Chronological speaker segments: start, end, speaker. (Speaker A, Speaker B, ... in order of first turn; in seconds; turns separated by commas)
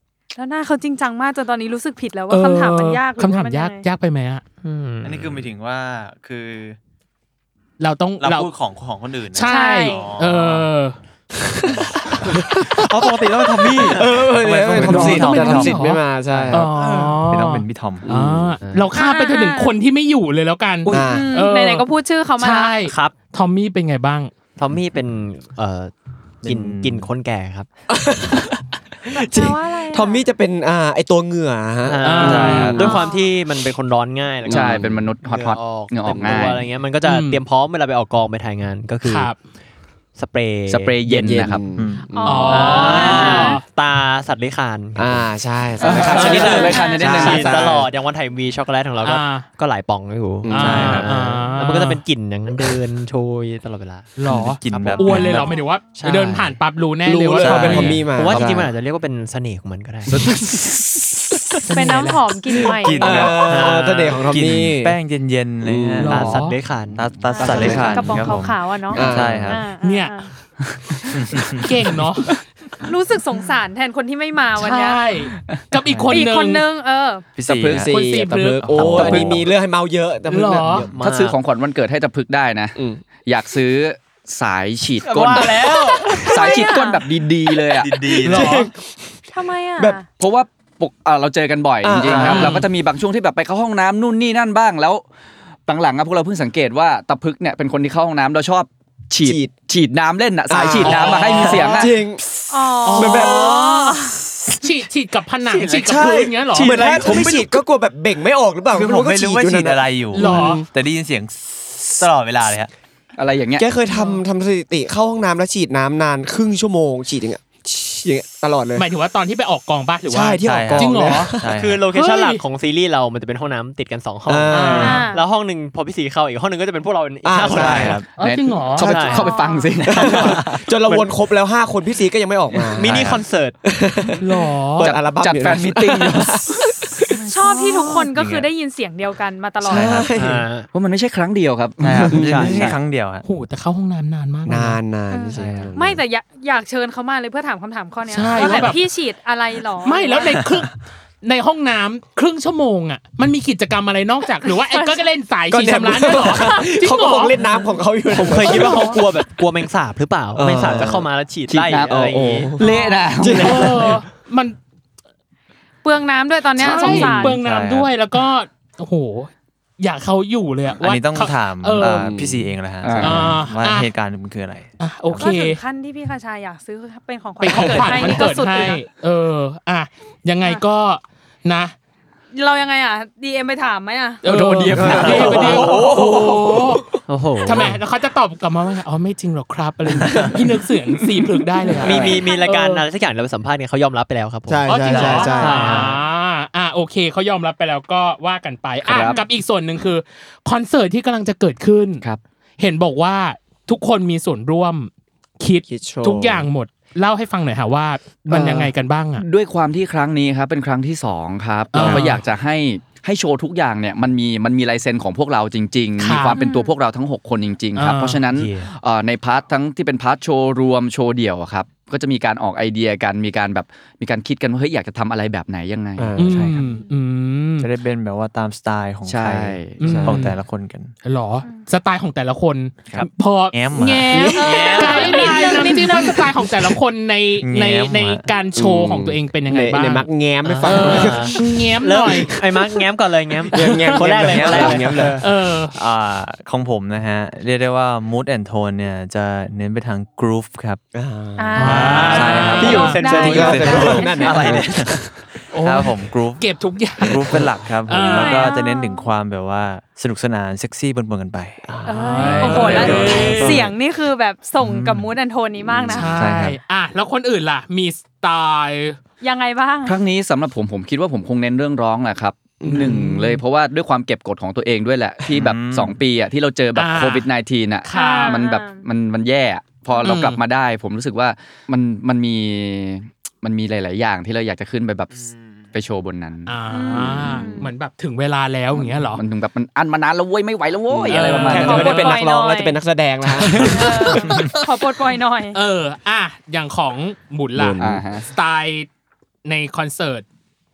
Speaker A: 0.3-3.9, Speaker B: 2.3-4.4, Speaker C: 4.6-5.5, Speaker D: 5.0-6.8, Speaker B: 7.8-8.5, Speaker D: 8.2-10.7, Speaker B: 9.3-11.0, Speaker A: 9.4-10.1, Speaker E: 11.6-11.8, Speaker D: 11.7-15.9, Speaker E: 12.4-12.8, Speaker C: 12.8-14.1, Speaker E: 13.9-16.7, Speaker C: 14.7-15.4, Speaker B: 14.8-16.0, Speaker C: 16.3-17.2, Speaker D: 16.4-16.7, Speaker B: 16.5-21.9, Speaker D: 17.2-18.1, Speaker E: 18.1-18.6, Speaker C: 18.6-18.9, Speaker A: 18.9-19.7, Speaker E: 20.9-21.4, Speaker A: 21.0-22.9, Speaker B: 22.4-24.3, Speaker C: 22.9-23.1, Speaker C: 24.6-25.9, Speaker D: 26.4-27.1, Speaker C: 26.4-27.7, Speaker E: 27.9-33.0, Speaker A: 29.1-30.2, Speaker C: 31.9-39.3, Speaker B: 32.0-32.9, Speaker D: 32.2-32.9, Speaker A: 32.8-33.3, Speaker E: 34.4-35.1, Speaker F: 34.5-36.6, Speaker E: 36.2-36.5, Speaker B: 37.0-37.4, Speaker B: 39.0-39.4, Speaker C: 40.1-41.5, Speaker F: 40.7-41.6, Speaker E: 41.1-43.2, Speaker D: 41.8-42.1, Speaker A: 42.1-43.6, Speaker B: 42.2-43.6, Speaker C: 42.5-45.3, Speaker E: 45.0-47.9, Speaker A: 45.8-47.5, Speaker F: 45.8-47.7, Speaker C: 45.9-54.1, Speaker B: 49.0-49.5, Speaker E: 50.4-51.1, Speaker B: 50.5-52.0, Speaker D: 50.6-51.1, Speaker B: 54.1-57.9, Speaker D: 54.2-56.4, Speaker C: 54.7-55.5, Speaker C: 56.0-56.4, Speaker E: 57.0-58.7, Speaker D: 57.4-58.6, Speaker C: 57.9-60.3, Speaker F: 60.2-60.6, Speaker B: 61.6-62.3, Speaker A: 61.7-63.5, Speaker D: 62.6-69.7, Speaker E: 63.0-65.0, Speaker C: 63.4-64.2, Speaker E: 65.6-66.2, Speaker B: 66.0-66.6, Speaker C: 66.0-68.0, Speaker A: 67.3-70.3, Speaker E: 67.5-68.0, Speaker E: 68.9-69.6, Speaker B: 69.7-70.2, Speaker D: 71.1-71.8, Speaker B: 71.6-72.4, Speaker A: 72.8-75.0, Speaker B: 74.6-76.6, Speaker D: 75.8-76.2, Speaker A: 76.1-77.2, Speaker D: 77.4-79.5, Speaker F: 77.4-77.9, Speaker E: 77.7-80.9, Speaker B: 77.9-78.7, Speaker F: 78.9-79.3, Speaker B: 80.3-80.8, Speaker C: 80.6-81.4, Speaker F: 81.0-85.7, Speaker E: 82.8-83.0, Speaker C: 85.0-86.3, Speaker A: 85.8-87.0, Speaker F: 86.2-88.2, Speaker D: 87.8-88.6, Speaker E: 88.2-89.1, Speaker B: 88.2-88.7, Speaker A: 89.3-90.0, Speaker F: 90.2-95.0, Speaker E: 91.8-92.6, Speaker D: 92.0-92.5, Speaker B: 92.2-92.7, Speaker F: 95.7-102.0, Speaker E: 99.2-99.5, Speaker E: 100.5-104.1, Speaker B: 100.8-101.8, Speaker A: 102.5-104.2, Speaker B: 102.8-103.5, Speaker B: 104.6-106.8, Speaker F: 105.5-107.3, Speaker E: 105.8-110.6, Speaker C: 106.6-107.5, Speaker D: 108.8-112.7, Speaker B: 110.1-110.6, Speaker F: 113.2-113.7, Speaker E: 113.6-118.9, Speaker B: 113.9-114.2, Speaker B: 118.8-121.3, Speaker E: 120.1-121.5, Speaker D: 120.4-121.9, Speaker C: 121.5-128.0, Speaker B: 121.9-122.4, Speaker E: 124.3-125.0, Speaker B: 124.5-125.1, Speaker A: 124.7-125.2, Speaker E: 127.2-128.1, Speaker D: 127.5-128.1, Speaker B: 128.1-129.0, Speaker F: 128.2-130.5, Speaker C: 128.8-129.3, Speaker A: 128.9-130.1, Speaker E: 129.9-133.1, Speaker C: 132.7-133.6, Speaker D: 132.8-133.2, Speaker E: 133.6-137.2, Speaker B: 134.2-134.9, Speaker F: 134.8-136.5, Speaker A: 137.1-140.0, Speaker B: 137.4-138.0, Speaker D: 138.1-138.5, Speaker D: 139.6-140.1, Speaker E: 139.6-140.4, Speaker C: 140.1-140.7, Speaker F: 140.7-142.7, Speaker D: 141.8-143.2, Speaker E: 142.1-142.7, Speaker C: 142.2-142.7, Speaker B: 143.2-144.8, Speaker E: 144.4-146.0, Speaker A: 145.1-150.5, Speaker D: 145.4-145.7, Speaker B: 148.1-148.8, Speaker B: 149.8-157.4, Speaker A: 154.4-155.1, Speaker E: 155.5-159.0, Speaker A: 156.1-156.8, Speaker C: 158.1-162.5, Speaker A: 158.4-158.9, Speaker B: 158.6-159.0, Speaker E: 160.3-161.1, Speaker F: 161.5-162.0, Speaker E: 161.9-164.0, Speaker F: 162.6-163.7, Speaker A: 162.6-163.2, Speaker B: 163.4-164.6, Speaker A: 165.8-167.4, Speaker B: 166.6-172.1, Speaker D: 166.8-167.9, Speaker D: 170.8-175.3, Speaker E: 171.8-172.5, Speaker F: 172.8-173.4, Speaker B: 173.0-173.9, Speaker B: 174.8-175.6, Speaker A: 175.1-178.8, Speaker B: 177.4-181.7, Speaker A: 182.3-184.2, Speaker B: 184.2-186.8, Speaker F: 184.3-186.3, Speaker E: 184.7-186.8, Speaker C: 184.9-185.5, Speaker C: 187.1-187.8, Speaker B: 187.4-192.8, Speaker F: 191.8-192.2, Speaker C: 191.8-195.9, Speaker A: 192.1-192.5, Speaker E: 194.5-196.0, Speaker B: 194.7-202.0, Speaker D: 194.9-195.3, Speaker F: 198.9-199.2, Speaker B: 202.6-209.2, Speaker E: 205.7-206.5, Speaker E: 208.3-208.7, Speaker F: 209.2-226.1, Speaker B: 211.7-212.2, Speaker B: 216.0-216.4, Speaker A: 216.3-216.7, Speaker B: 217.7-218.2, Speaker C: 218.3-218.7, Speaker E: 226.0-226.6, Speaker D: 226.2-226.7, Speaker B: 226.2-227.7, Speaker D: 227.6-230.9, Speaker F: 229.1-229.8, Speaker B: 229.8-230.4, Speaker E: 229.8-230.3, Speaker B: 231.1-240.1, Speaker A: 231.4-231.7, Speaker D: 232.9-234.4, Speaker A: 234.3-236.3, Speaker C: 234.4-235.2, Speaker E: 235.3-236.2, Speaker D: 237.4-238.3, Speaker E: 238.6-241.5, Speaker C: 240.4-245.2, Speaker B: 240.6-242.8, Speaker E: 243.5-245.2, Speaker D: 244.0-245.1, Speaker B: 245.2-245.7, Speaker D: 245.7-250.8, Speaker E: 250.9-255.0, Speaker A: 251.4-254.6, Speaker B: 251.6-253.0, Speaker C: 251.7-254.7, Speaker D: 252.1-263.7, Speaker B: 255.5-257.4, Speaker B: 257.9-258.5, Speaker A: 257.9-259.1, Speaker E: 261.7-263.6, Speaker A: 261.9-266.3, Speaker B: 261.9-263.6, Speaker D: 264.6-265.1, Speaker E: 265.7-266.1, Speaker D: 265.8-266.6, Speaker B: 265.9-269.0, Speaker A: 269.2-269.9, Speaker F: 269.9-286.6, Speaker E: 272.6-273.4, Speaker D: 275.3-276.0, Speaker B: 276.7-277.3, Speaker B: 277.8-278.4, Speaker A: 277.9-278.8, Speaker B: 280.0-280.4, Speaker B: 286.5-289.2, Speaker A: 286.7-287.7, Speaker F: 287.2-287.4, Speaker F: 288.7-292.1, Speaker E: 290.9-294.5, Speaker B: 291.1-291.9, Speaker A: 291.3-292.8, Speaker A: 293.7-295.6, Speaker B: 295.5-298.9, Speaker E: 297.6-298.2, Speaker F: 297.8-298.3, Speaker B: 299.4-300.2